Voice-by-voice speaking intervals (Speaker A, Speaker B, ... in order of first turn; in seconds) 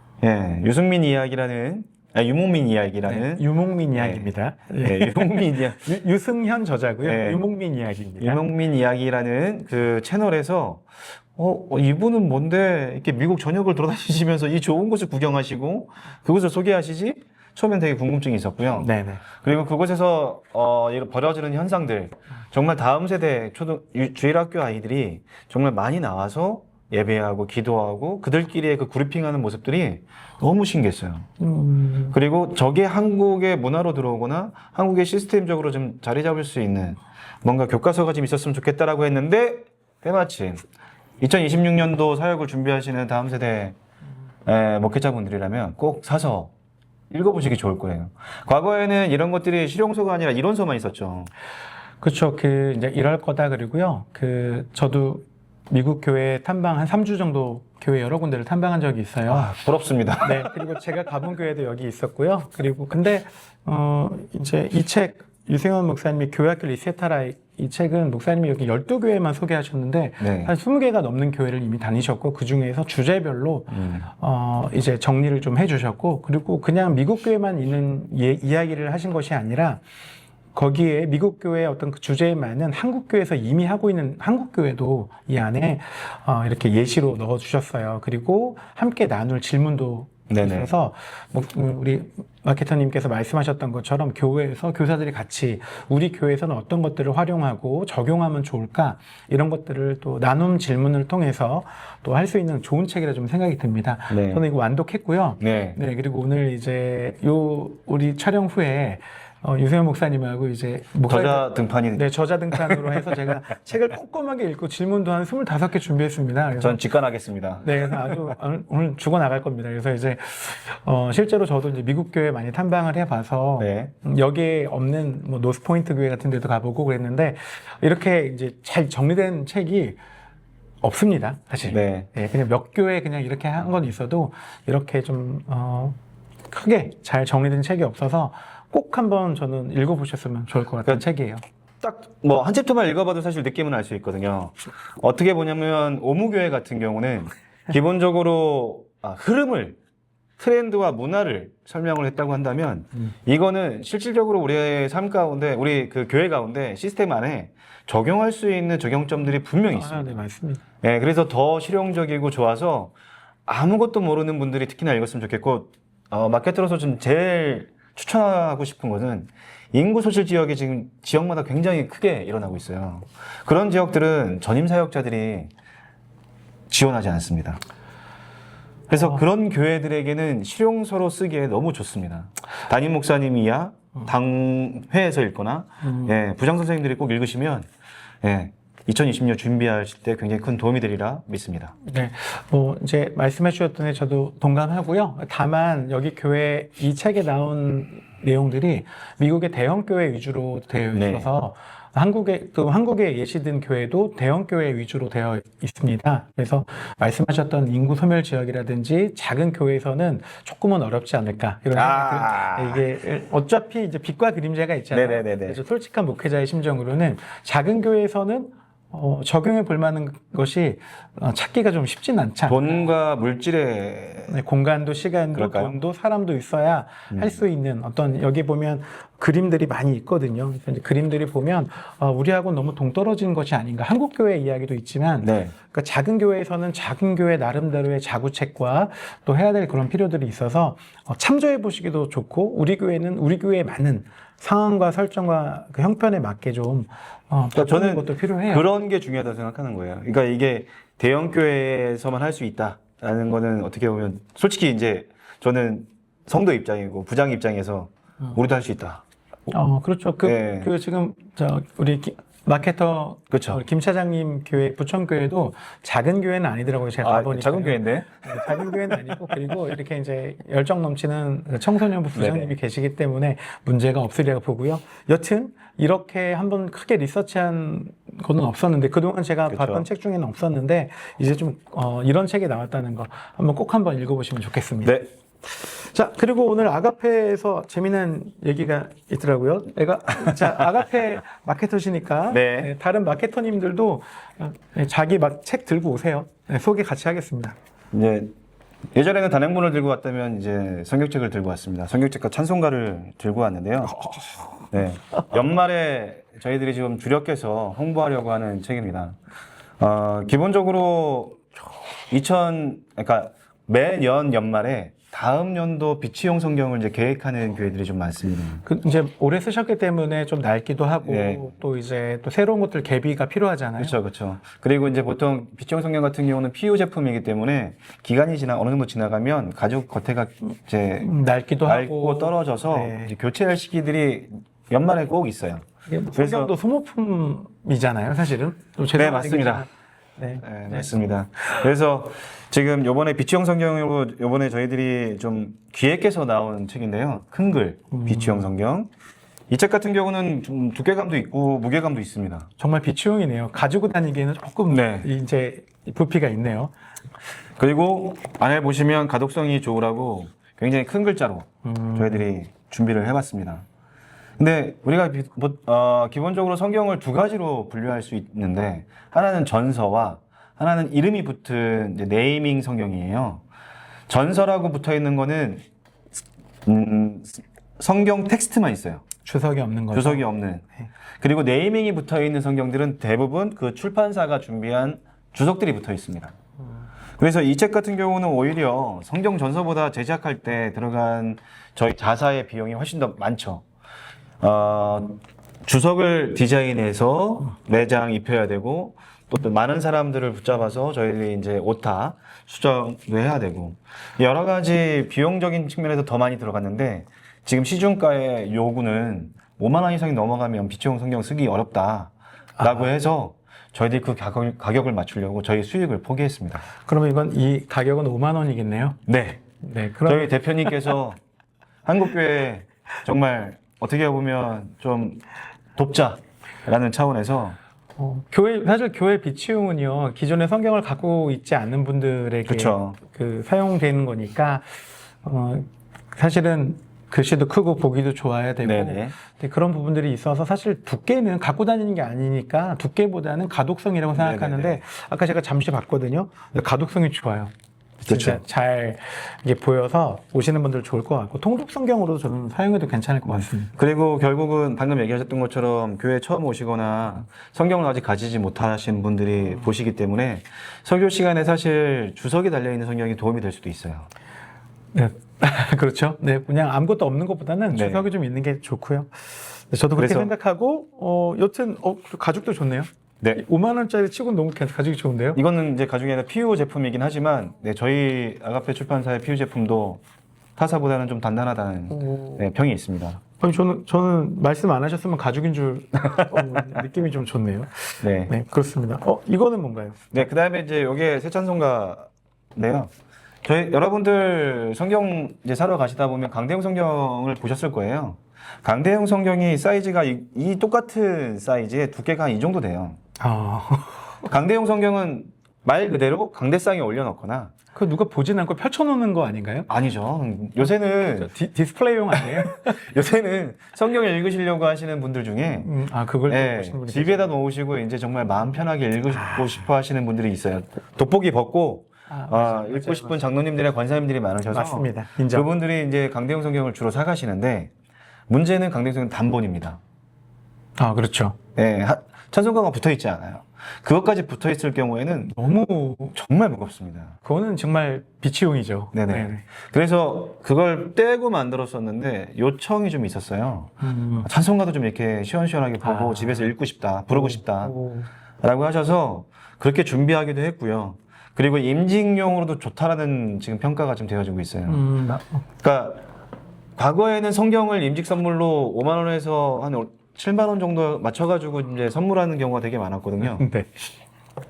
Speaker A: 0.2-4.3, 4.8-5.9, 7.0-7.4, 8.2-31.3, 32.1-40.6, 41.2-43.8, 44.5-46.5, 47.1-51.3, 59.3-60.5, 70.2-70.5, 73.7-74.0, 90.3-90.7, 104.1-104.4, 105.4-105.8, 111.1-113.1, 116.6-118.2, 123.6-123.9, 131.7-132.1, 141.8-149.8, 150.4-160.2, 160.8-162.9, 163.5-175.5, 176.7-177.6, 178.9-187.7, 188.2-191.7, 200.9-201.3, 211.7-212.8, 214.9-215.6, 222.5-224.3, 225.3-225.7, 235.2-235.5, 247.6-259.0, 260.2-260.7, 263.3-263.6, 267.0-268.6, 272.1-272.5, 279.5-279.9, 284.8-285.1, 292.3-292.7, 297.9-298.3, 298.9-304.1, 304.7-309.2, 309.8-311.4, 312.1-318.6, 321.0-321.4, 323.8-331.1, 331.6-336.5, 338.9-339.6, 340.4-348.9, 349.5-352.5, 354.7-355.1, 357.6-363.6, 364.4-373.4, 374.1-375.6, 376.6-379.0, 379.9-380.6, 381.2-386.4, 387.2-393.6, 394.4-416.7, 419.1-419.4, 420.1-421.2, 421.9-425.2, 425.8-427.6, 432.5-433.0, 438.6-439.1, 444.1-444.8, 448.1-448.4, 453.3-464.1, 467.7-468.1, 470.0-470.3, 475.4-480.0, 480.6-483.2, 488.0-488.3, 490.1-492.9, 493.4-503.0, 504.3-507.5, 509.7-511.3, 512.2-515.7, 516.3-527.7, 528.3-529.8, 531.6-535.4, 536.1-537.1, 538.9-543.7, 544.2-547.7, 548.4-554.9, 555.6-556.0, 556.8-563.5
Speaker B: 3.1-8.4, 18.8-19.2, 31.4-32.2, 52.0-59.5, 60.2-79.8, 80.5-116.8, 117.6-130.0, 130.8-136.0, 136.5-141.4, 159.7-160.6, 185.8-186.1, 191.8-222.8, 224.3-248.7, 259.5-297.6, 304.0-304.7, 318.6-324.0, 331.0-333.1, 335.9-340.9, 347.9-348.5, 352.6-356.7, 361.6-362.3, 379.2-380.3, 412.6-412.9, 416.8-419.0, 419.6-420.8, 428.0-447.5, 448.0-453.7, 464.9-475.4, 481.9-482.5, 483.4-490.1, 503.2-504.3, 507.8-509.7, 510.6-512.8, 515.6-517.3, 519.2-519.5, 522.1-523.2, 524.5-525.5, 530.8-531.4, 535.4-536.2, 537.2-539.4, 543.8-544.3, 545.8-546.5, 547.1-548.1, 554.7-555.4, 563.2-563.9